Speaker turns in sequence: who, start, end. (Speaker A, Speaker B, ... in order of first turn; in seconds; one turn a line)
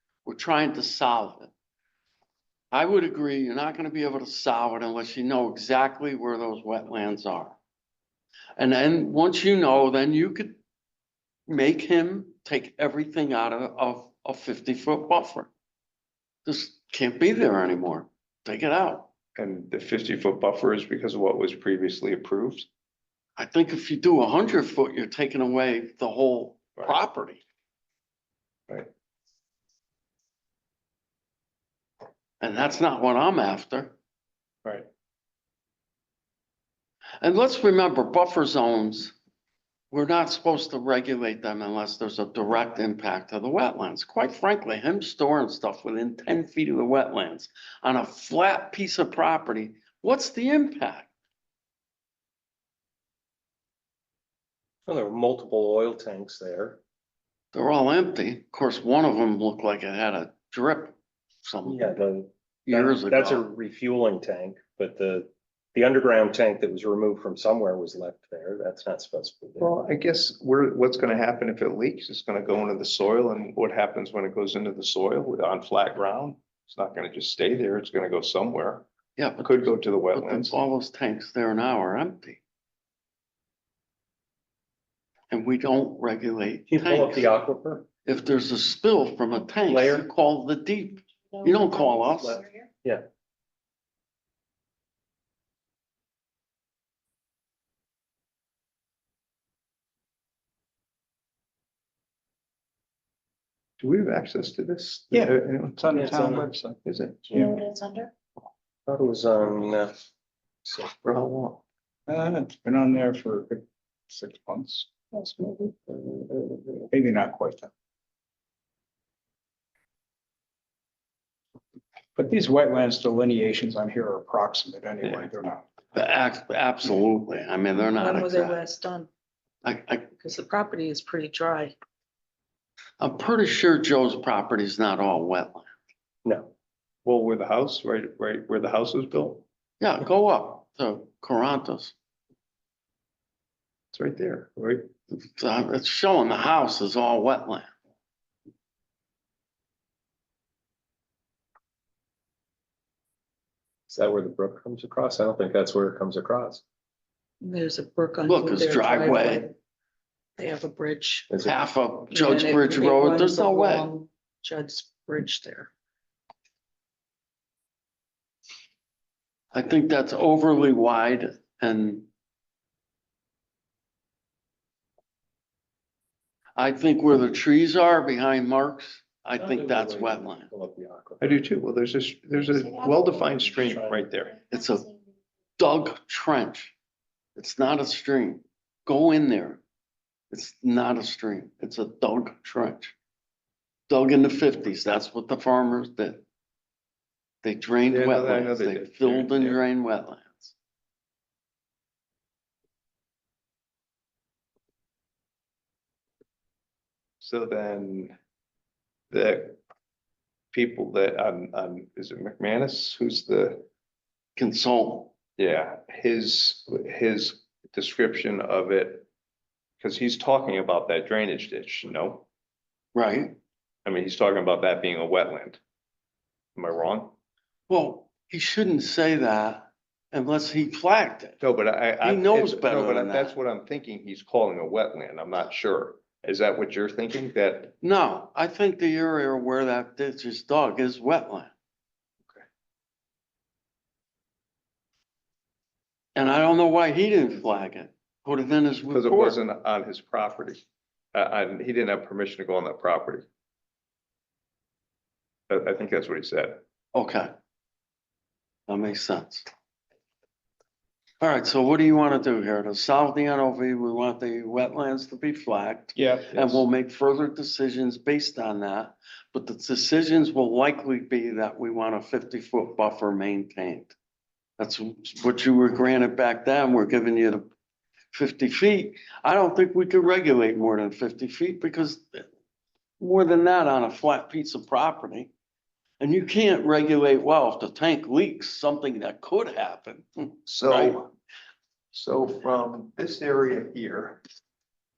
Speaker A: 0.2-1.5
Speaker A: 2.7-7.6
Speaker A: 8.6-10.6
Speaker A: 11.5-15.5
Speaker A: 16.4-19.1
Speaker B: 19.4-22.7
Speaker A: 23.4-27.4
Speaker A: 32.4-33.9
Speaker A: 37.2-39.1
Speaker A: 39.9-51.1
Speaker C: 54.9-56.8
Speaker A: 57.5-62.0
Speaker C: 61.6-69.7
Speaker A: 62.7-63.4
Speaker B: 69.6-78.8
Speaker A: 79.2-82.4
Speaker B: 79.4-80.5
Speaker A: 85.3-87.3
Speaker C: 86.7-87.8
Speaker A: 88.0-92.4
Speaker C: 89.7-90.0
Speaker C: 92.3-93.0
Speaker B: 103.8-107.3
Speaker D: 105.1-106.8
Speaker C: 105.9-106.4
Speaker C: 107.3-107.6
Speaker C: 108.9-110.0
Speaker B: 111.0-111.6
Speaker D: 112.1-114.9
Speaker D: 116.3-117.7
Speaker D: 122.2-125.6
Speaker A: 125.9-128.6
Speaker E: 127.8-129.1
Speaker A: 129.6-130.1
Speaker E: 130.2-131.8
Speaker A: 133.0-135.7
Speaker C: 136.2-136.5
Speaker B: 137.0-139.4
Speaker A: 139.8-141.9
Speaker B: 143.9-144.8
Speaker A: 145.1-147.7
Speaker C: 153.9-156.6
Speaker E: 157.4-159.5
Speaker A: 158.2-159.5
Speaker E: 160.4-161.3
Speaker C: 161.3-161.6
Speaker A: 161.4-163.9
Speaker E: 162.1-165.7
Speaker A: 169.5-172.1
Speaker A: 176.6-180.5
Speaker C: 179.3-181.3
Speaker B: 181.2-184.3
Speaker A: 184.5-184.9
Speaker A: 185.6-186.7
Speaker A: 187.3-189.6
Speaker A: 190.3-192.9
Speaker A: 193.9-196.2
Speaker A: 197.4-200.5
Speaker B: 197.9-199.6
Speaker B: 207.2-208.2
Speaker B: 209.1-209.6
Speaker B: 210.5-213.6
Speaker A: 214.4-215.1
Speaker B: 215.4-219.1
Speaker B: 219.8-222.2
Speaker A: 222.9-223.4
Speaker B: 223.8-225.6
Speaker B: 226.6-227.1
Speaker A: 227.7-231.4
Speaker B: 231.4-237.7
Speaker A: 232.0-233.3
Speaker A: 237.8-241.5
Speaker A: 246.1-249.4
Speaker B: 248.9-253.2
Speaker B: 255.5-256.6
Speaker A: 256.9-257.3
Speaker A: 258.7-259.5
Speaker A: 261.2-273.9
Speaker D: 265.9-266.3
Speaker B: 266.3-266.6
Speaker A: 274.6-277.5
Speaker A: 278.1-282.3
Speaker A: 283.0-285.3
Speaker A: 286.0-291.0
Speaker B: 290.4-291.1
Speaker B: 291.9-294.2